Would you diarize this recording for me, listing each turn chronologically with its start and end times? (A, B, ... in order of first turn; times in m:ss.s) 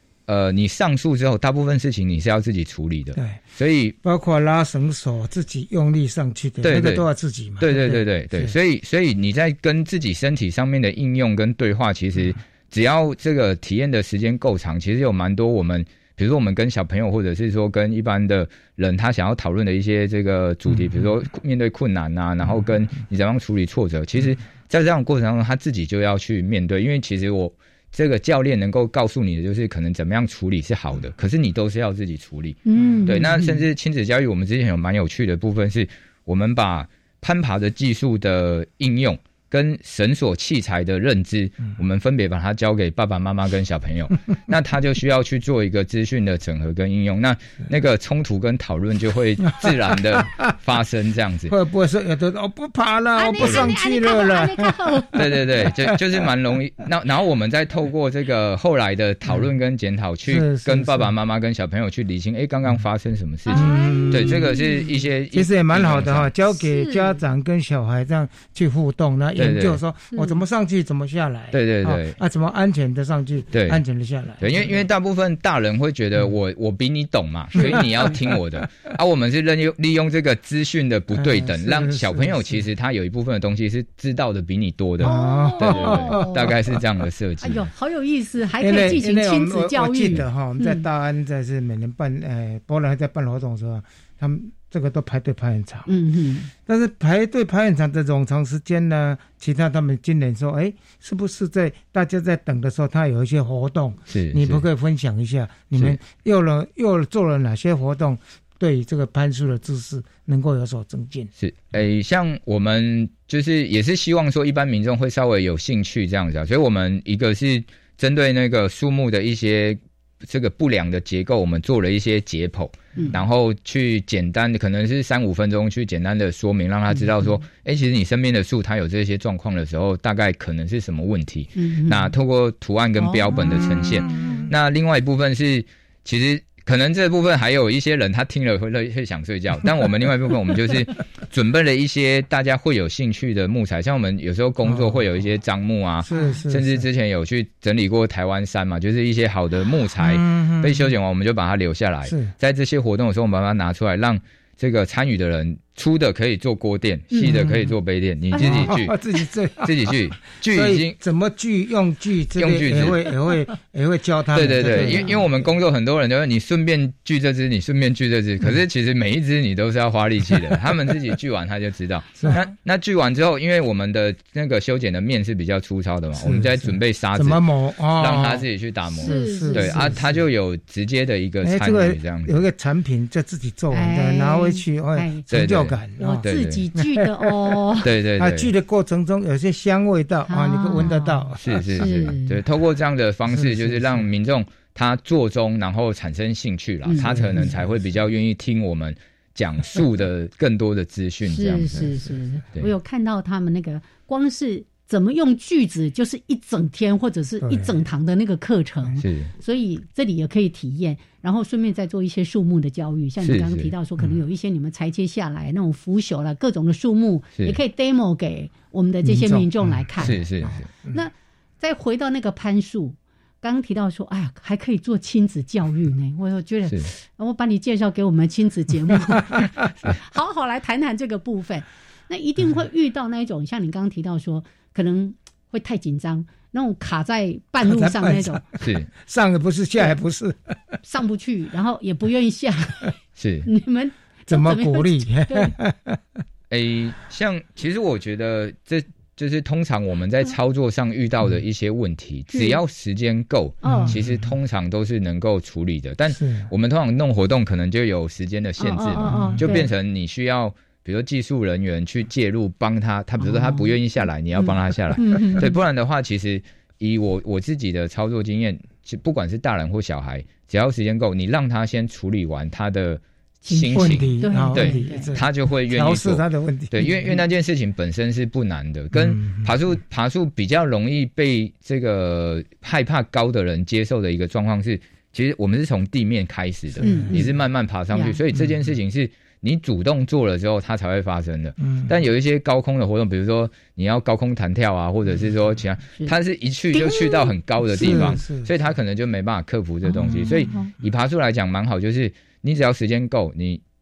0:00.3-0:04.0 A
0:03.2-0:03.4 B
0:04.0-0:08.5 B
0:06.6-0:07.0 A
0:07.6-0:51.5 A
0:32.6-0:33.6 C
0:49.6-0:49.9 B
0:51.5-0:56.2 B
0:53.1-0:55.2 C
0:55.1-1:06.3 A
1:00.3-1:01.1 B
1:03.5-1:04.6 C
1:03.5-1:04.7 B
1:05.3-1:14.8 B
1:06.6-1:07.2 C
1:09.4-1:09.8 A
1:10.1-1:10.4 C
1:11.5-1:12.1 A
1:13.5-1:13.8 A
1:14.4-1:27.7 A
1:17.5-1:17.8 B
1:21.1-1:22.6 B
1:25.0-1:26.7 B
1:25.0-1:26.5 C
1:27.4-1:30.8 C
1:28.6-1:35.9 B
1:35.9-1:36.5 C
1:36.6-1:51.3 B
1:44.1-1:44.6 A
1:51.4-2:39.0 A
2:11.6-2:12.1 C
2:13.0-2:14.3 C
2:13.4-2:14.3 B
2:24.6-2:25.0 B
2:26.0-2:26.8 B
2:30.0-2:30.9 B
2:32.0-2:32.3 B
2:37.2-2:37.7 B
2:38.3-2:38.7 C
2:38.3-2:45.2 B
2:39.6-2:40.9 A
2:42.4-2:43.1 A
2:44.3-2:57.4 A
2:44.8-2:45.1 C
2:56.1-3:00.2 B
2:58.0-3:02.4 A
2:59.0-3:00.0 C
3:01.4-3:07.6 B
3:03.7-3:05.2 C
3:05.3-3:06.6 A
3:06.0-3:07.9 C
3:07.8-3:08.5 A
3:08.2-3:12.1 B
3:10.3-3:12.4 C
3:11.4-3:21.9 A
3:13.3-3:14.1 B
3:16.8-3:17.5 C
3:17.0-3:17.7 B
3:21.3-3:58.4 C
3:27.4-3:27.8 B
3:29.0-3:29.3 A
3:33.2-3:33.7 A
3:39.0-3:40.3 B
3:40.0-3:40.7 A
3:57.6-4:00.6 B
3:58.6-3:58.9 A
4:00.8-4:02.9 C
4:03.2-4:03.5 A
4:03.4-4:05.5 C
4:04.3-4:06.0 B
4:06.5-5:03.6 A
4:12.3-4:12.6 C
4:13.6-4:14.0 C
4:13.6-4:14.3 B
4:16.1-4:16.5 B
4:18.6-4:19.7 C
4:19.0-4:19.6 B
4:23.2-4:23.7 C
4:24.4-4:25.5 C
4:33.4-4:35.1 C
4:33.7-4:37.2 B
4:38.9-4:39.5 B
4:46.8-4:47.3 B
4:46.8-4:47.3 C
4:47.9-4:48.2 C
4:51.6-4:51.9 B
4:56.7-4:57.3 C
4:57.7-4:58.5 B
4:59.8-5:00.7 C